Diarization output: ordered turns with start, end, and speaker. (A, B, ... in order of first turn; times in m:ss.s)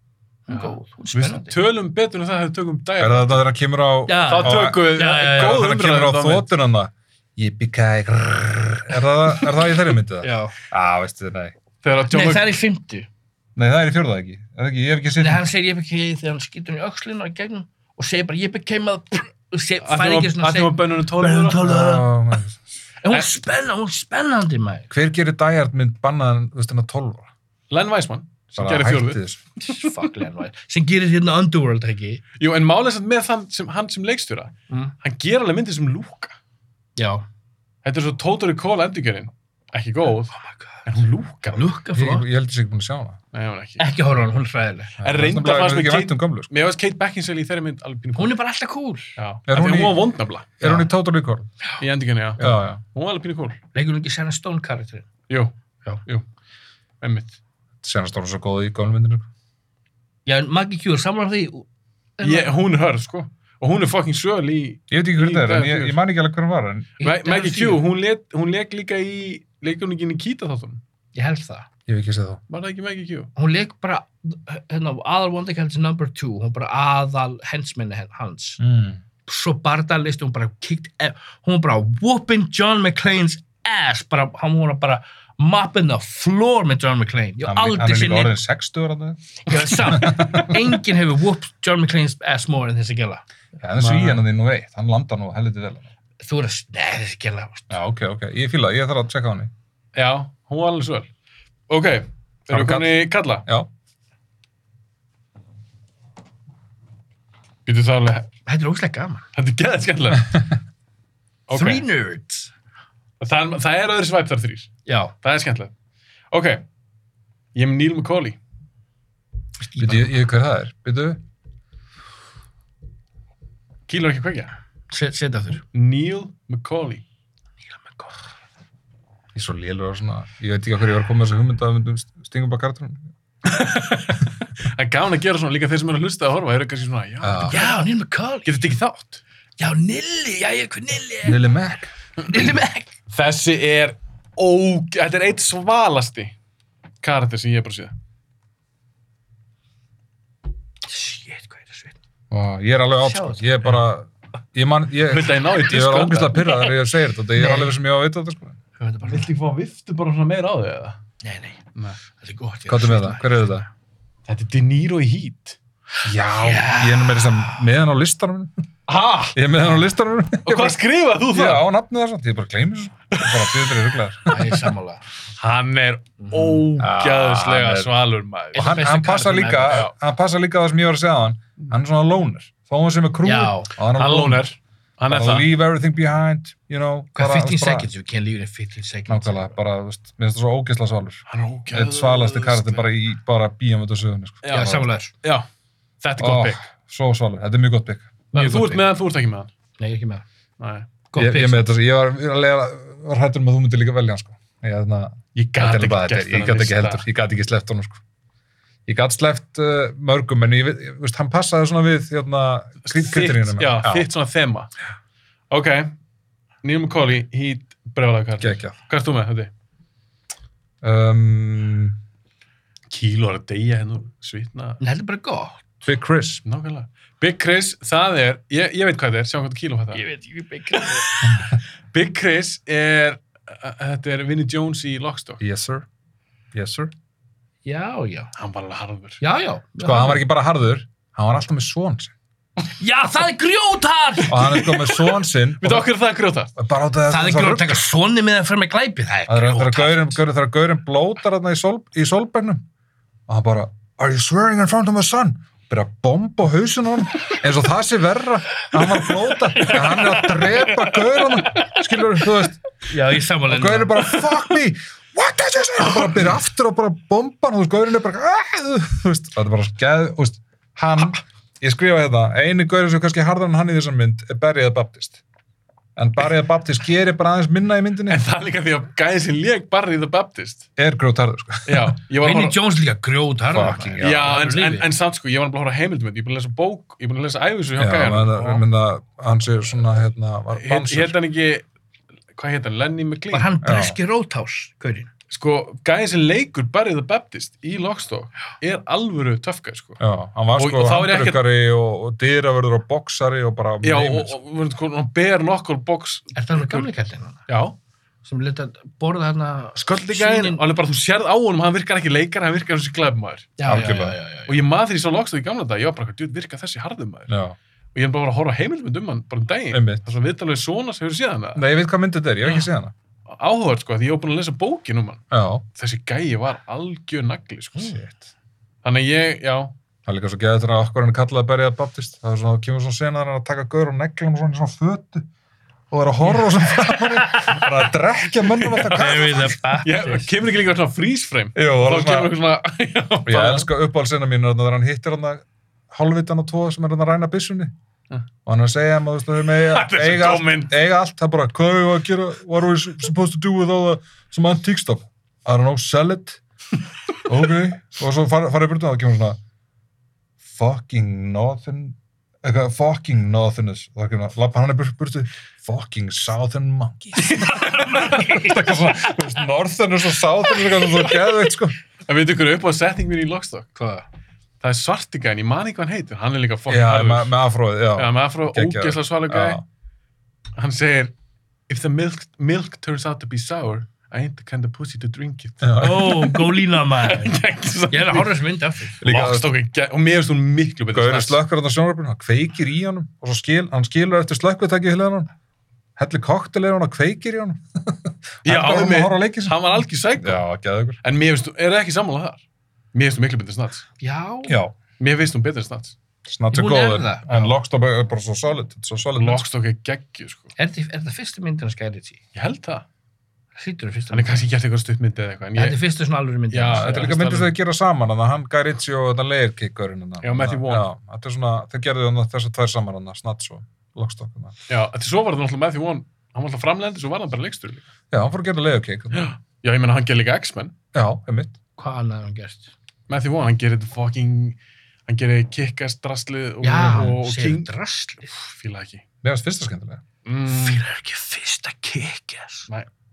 0:00.5-0:01.6 A
0:00.5-0:03.4 B
0:03.0-0:11.6 C
0:04.1-0:05.6 A
0:04.3-0:06.5 B
0:10.2-0:10.5 A
0:11.8-0:12.6 B
0:12.1-0:13.1 A
0:13.6-0:15.5 C
0:15.2-0:22.1 A
0:19.8-0:21.6 B
0:21.6-0:22.7 C
0:23.0-0:24.9 A
0:24.9-0:27.3 C
0:27.7-0:29.2 B
0:28.5-0:29.4 C
0:29.6-0:32.2 A
0:32.4-0:36.4 B
0:37.0-0:37.3 A
0:37.8-0:41.7 B
0:40.3-0:40.9 A
0:41.5-0:42.3 A
0:41.9-0:43.2 C
0:43.3-0:43.9 B
0:43.8-0:45.0 A
0:45.0-0:46.5 C
0:45.0-0:48.4 B
0:48.2-0:49.1 A
0:49.2-0:50.5 B
0:49.5-0:50.0 C
0:50.6-0:51.5 C
0:50.6-0:50.9 A
0:51.8-0:53.6 B
0:52.4-0:52.8 C
0:53.7-0:55.1 A
0:57.0-0:57.4 B
0:57.8-0:59.3 C
1:00.3-1:01.7 A
1:02.2-1:02.6 A
1:02.2-1:06.0 B
1:04.9-1:06.9 C
1:07.0-1:07.8 A
1:07.0-1:10.8 B
1:11.1-1:11.7 A
1:11.9-1:12.4 C
1:12.5-1:13.3 B
1:13.4-1:18.6 A
1:18.6-1:19.0 C
1:19.3-1:28.4 A
1:27.4-1:30.8 C
1:29.5-1:33.2 A
1:33.6-1:35.9 C
1:33.8-1:34.2 B
1:36.2-1:37.7 A
1:37.7-1:39.5 C
1:40.0-1:41.1 B
1:41.7-1:43.4 B
1:42.5-1:42.9 C
1:47.7-1:48.3 B
1:48.5-1:49.2 A
1:49.4-1:50.3 B
1:51.5-1:51.8 B
1:51.5-1:52.5 A
1:53.2-1:55.7 B
1:54.9-1:55.1 A
1:56.3-1:56.6 B
1:57.6-1:58.4 B
1:59.6-2:00.1 A
1:59.8-2:01.2 C
2:03.9-2:04.5 B
2:04.9-2:05.6 A
2:05.7-2:07.0 B
2:07.7-2:08.1 A
2:09.3-2:13.0 C
2:13.4-2:17.9 B
2:17.2-2:17.6 C
2:17.5-2:18.7 A
2:18.4-2:19.2 B
2:19.6-2:21.5 A
2:21.2-2:21.9 C
2:22.3-2:22.9 A
2:23.1-2:26.3 B
2:27.0-2:27.9 B
2:30.9-2:32.0 A
2:32.3-2:38.6 C
2:33.0-2:33.8 A
2:35.1-2:36.6 B
2:37.4-2:37.8 A
2:38.8-2:39.3 A
2:39.1-2:41.0 B
2:41.2-2:43.6 A
2:42.7-2:43.7 C
2:44.3-2:45.6 B
2:46.0-2:48.6 C
2:46.4-2:47.6 A
2:48.9-2:49.4 B
2:49.3-2:54.7 C
2:50.4-2:51.6 B
2:53.1-2:53.8 B
2:54.3-2:55.0 A
2:55.4-2:58.7 B
2:56.2-2:56.7 A
2:56.8-2:57.9 C
2:58.5-2:59.9 A
2:58.6-3:04.4 C
3:03.2-3:03.7 A
3:04.0-3:05.5 B
3:05.1-3:07.9 C
3:07.2-3:09.6 A
3:09.1-3:14.9 C
3:11.3-3:12.9 B
3:14.4-3:15.5 B
3:14.5-3:15.1 A
3:16.0-3:16.6 B
3:16.2-3:18.8 C
3:18.3-3:19.5 B
3:18.4-3:18.8 A
3:19.8-3:20.2 A
3:20.6-3:20.9 B
3:21.1-3:21.7 A
3:21.2-3:28.0 C
3:25.4-3:27.0 B
3:28.9-3:34.1 C
3:32.8-3:34.7 B
3:35.5-3:35.9 B
3:36.6-3:39.5 B
3:38.4-3:38.8 C
3:40.8-3:42.0 C
3:42.9-3:44.8 B
3:44.8-3:45.6 A
3:45.8-3:46.4 C
3:46.5-3:50.0 B
3:49.9-3:51.3 A
3:50.7-3:55.4 B
3:55.4-3:55.9 C
3:56.5-3:56.9 C
3:57.6-3:58.3 A
3:58.4-3:59.2 B
3:59.2-4:00.2 A
3:59.8-4:02.1 C
4:02.8-4:04.8 A
4:04.3-4:05.9 C
4:05.6-4:06.5 B
4:06.6-4:07.8 C
4:07.1-4:10.2 A
4:09.3-4:12.7 C
4:13.3-4:22.6 C
4:22.9-4:24.0 A
4:23.5-4:35.2 C
4:25.9-4:26.2 B
4:36.0-4:38.2 C
4:38.1-4:40.6 B
4:40.8-4:41.9 C
4:41.7-4:42.6 B
4:42.2-4:44.9 A
4:43.5-4:44.4 C
4:44.0-4:48.6 B
4:47.8-4:51.2 C
4:50.5-4:51.7 B
4:52.4-4:53.5 B
4:53.3-4:55.1 A
4:53.6-4:54.0 C
4:55.3-5:00.0 B
5:00.0-5:04.4 C
5:00.6-5:01.4 B
5:03.8-5:06.9 B
5:06.4-5:07.4 A
5:07.5-5:07.8 B
5:08.2-5:10.6 A
5:09.8-5:13.6 B
5:13.6-5:14.6 A
5:13.7-5:14.2 C
5:14.5-5:17.3 B
5:17.3-5:17.6 C
5:18.0-5:21.6 B
5:19.7-5:20.0 C
5:21.6-5:22.9 C
5:22.4-5:22.7 B
5:23.3-5:25.2 B
5:25.3-5:25.6 C
5:25.8-5:28.0 B
5:27.8-5:28.3 C
5:28.8-5:29.7 B
5:30.1-5:35.3 C
5:35.9-5:39.6 C
5:36.8-5:37.6 A
5:38.6-5:43.7 B
5:38.9-5:40.3 A
5:41.6-5:42.3 C
5:43.3-5:47.7 C
5:48.5-5:56.4 C
5:49.6-5:50.7 B
5:57.2-5:59.4 C
6:00.5-6:11.8 C
6:07.3-6:08.2 B
6:07.3-6:08.6 A
6:12.1-6:13.7 B
6:13.8-6:14.0 A
6:14.6-6:17.3 B
6:16.7-6:19.6 C
6:18.0-6:19.6 B
6:20.6-6:21.1 B
6:21.7-6:26.4 B
6:25.6-6:26.3 C
6:25.8-6:29.0 A
6:27.0-6:28.4 B
6:29.0-6:29.5 C
6:29.0-6:31.4 B
6:30.9-6:35.3 C
6:36.0-6:41.0 C
6:38.4-6:40.4 B
6:41.0-6:42.4 B
6:42.9-6:43.8 B
6:44.0-6:44.6 A
6:44.5-6:44.7 C
6:45.0-6:46.0 B
6:46.3-6:49.4 C
6:46.5-6:47.5 A
6:49.2-6:50.5 B
6:50.6-6:52.2 A
6:52.4-6:52.9 B
6:53.6-6:54.4 A
6:54.1-6:55.8 B
6:55.6-6:57.2 A
6:56.5-6:57.5 B
6:56.7-7:04.6 C
7:00.2-7:00.9 B
7:04.7-7:07.9 B
7:08.1-7:09.3 C
7:09.1-7:10.7 B
7:10.9-7:11.6 C
7:11.8-7:12.7 A
7:13.1-7:17.7 B
7:16.6-7:18.3 A
7:18.3-7:19.0 B
7:19.2-7:20.0 C
7:20.2-7:20.8 B
7:20.5-7:22.7 A